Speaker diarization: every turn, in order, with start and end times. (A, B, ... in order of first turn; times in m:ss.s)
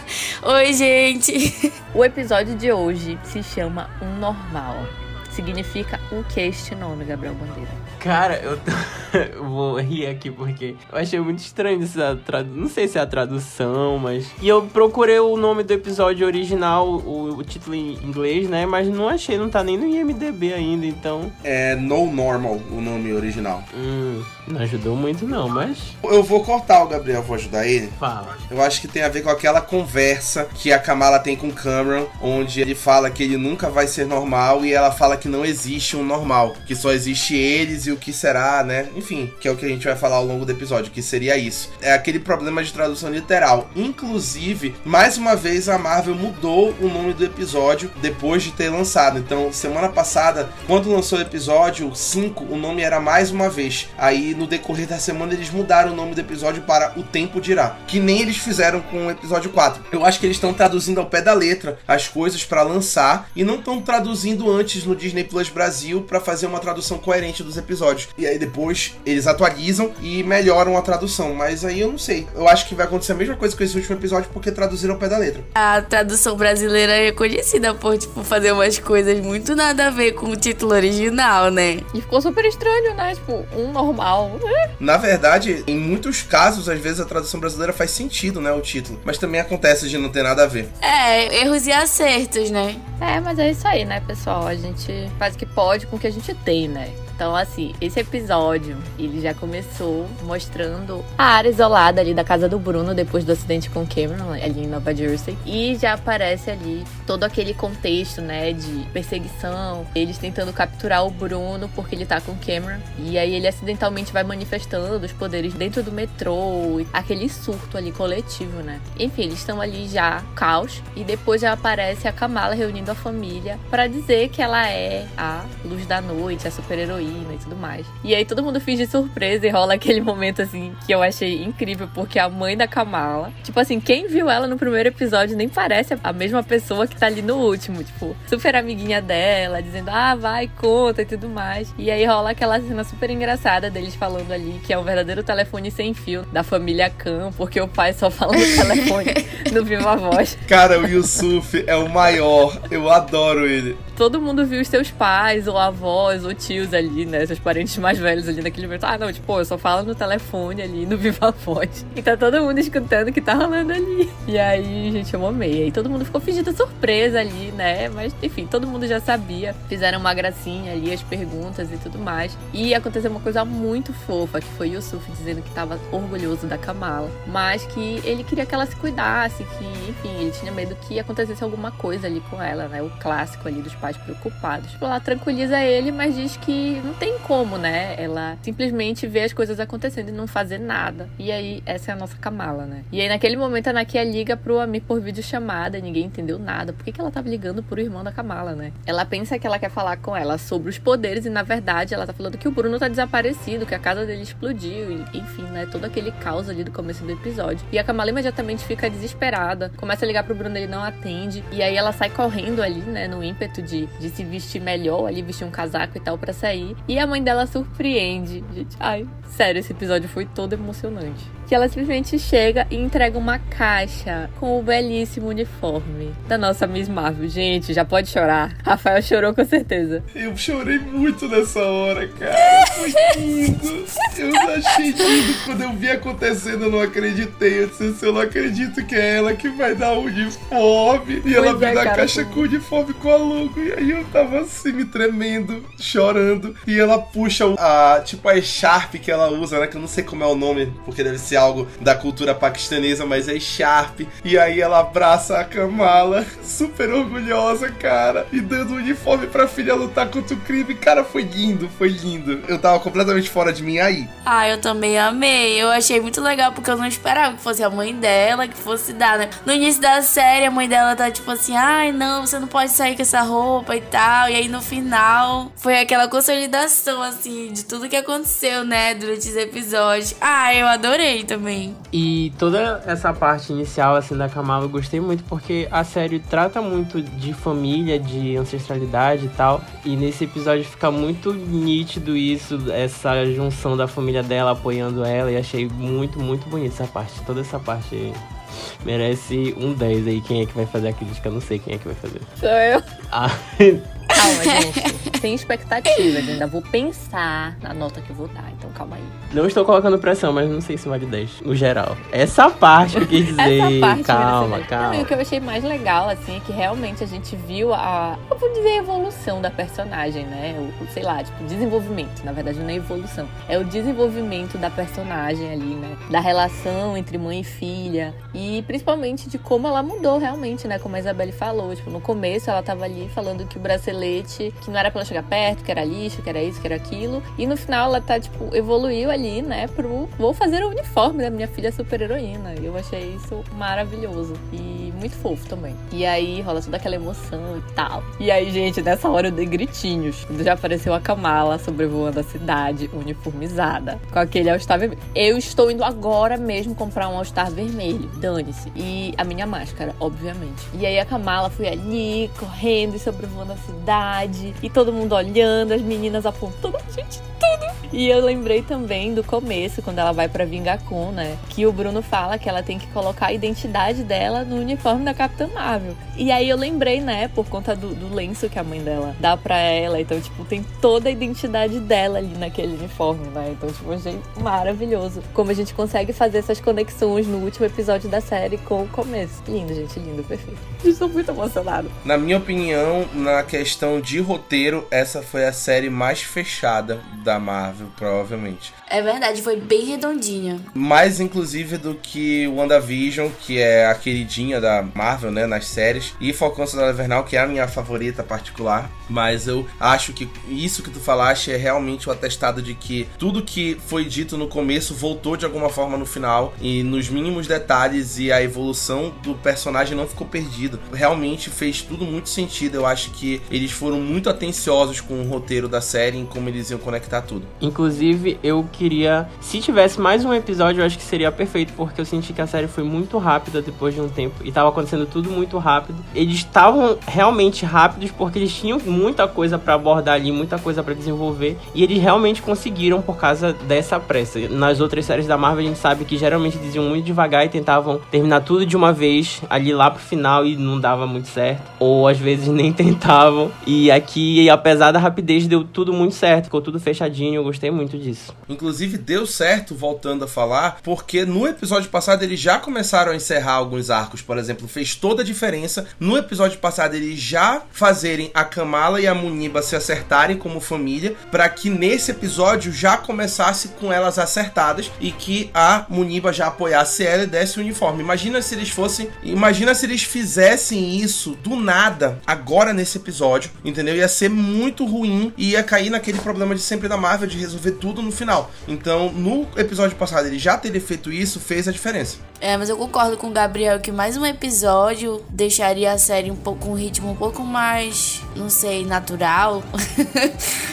0:00.4-0:01.7 A
0:01.9-0:07.8 B
0:08.0-0:21.4 C
0:21.4-0:23.7 D
0:23.7-0:26.0 C
0:26.0-0:28.0 D
0:28.0-0:28.4 C
0:28.5-1:15.5 D
1:15.6-1:21.9 A
1:21.9-1:24.4 B
1:24.8-1:30.7 D
1:30.8-1:32.8 A
1:33.0-2:30.4 B
2:30.5-2:33.8 D
2:34.0-3:50.1 B
3:50.1-4:24.1 D
4:01.3-4:02.5 B
4:24.2-4:41.8 A
4:41.9-4:58.2 C
4:58.8-5:02.3 C
5:02.4-5:02.8 B
5:03.1-5:03.9 C
5:04.1-5:09.2 B
5:04.3-5:04.7 A
5:09.3-5:15.1 C
5:13.0-6:31.9 B
6:32.0-6:38.7 D
6:38.9-6:40.7 A
6:40.8-7:07.5 D
7:07.6-7:38.4 C
7:38.5-8:12.2 D
8:12.4-8:20.4 A